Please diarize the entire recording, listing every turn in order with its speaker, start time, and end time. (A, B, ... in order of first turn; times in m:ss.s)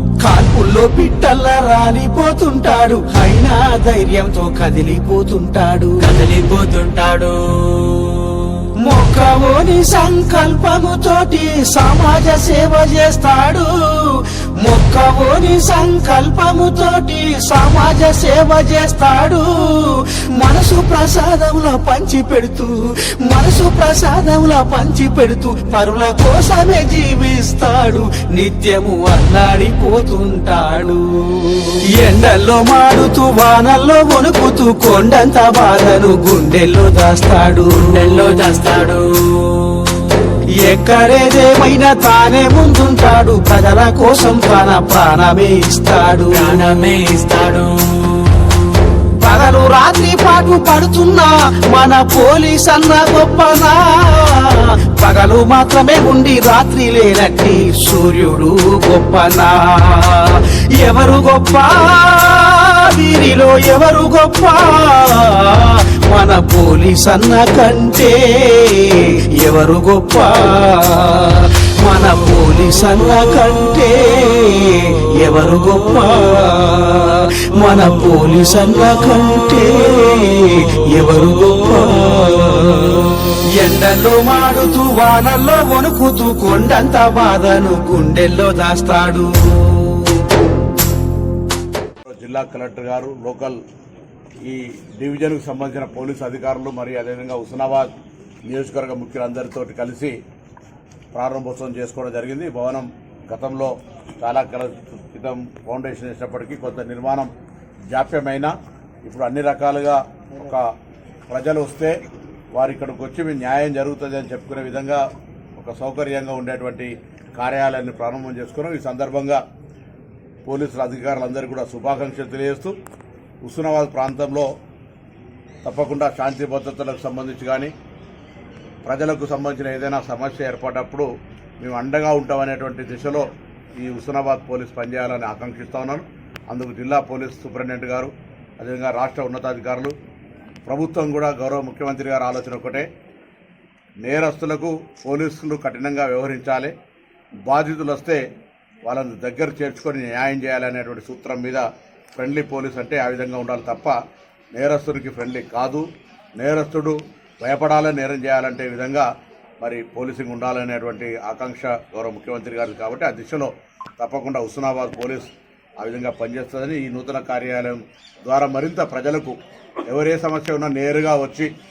0:00.2-0:06.0 A
0:06.0-0:08.5 B
0:08.8-0:38.2 A
0:37.8-0:40.1 B
0:40.6-0:46.6 A
0:46.3-0:48.5 B
0:49.2-1:30.0 A
1:32.1-1:33.6 C
1:34.4-1:37.9 C
1:38.5-1:40.2 C
1:41.1-1:47.3 C
1:47.9-1:48.5 C
1:49.0-1:50.6 C
1:51.3-1:52.0 C
1:52.5-1:55.1 C
1:55.6-1:59.4 C
2:00.5-2:02.8 C
2:03.4-2:04.5 C
2:05.6-2:07.7 C
2:08.8-2:11.1 C
2:11.6-2:19.9 C
2:20.7-2:22.9 C
2:24.0-2:26.7 C
2:27.5-2:28.2 C
2:28.8-2:31.6 C
2:32.2-2:34.0 C
2:34.5-2:39.1 C
2:39.6-2:51.5 C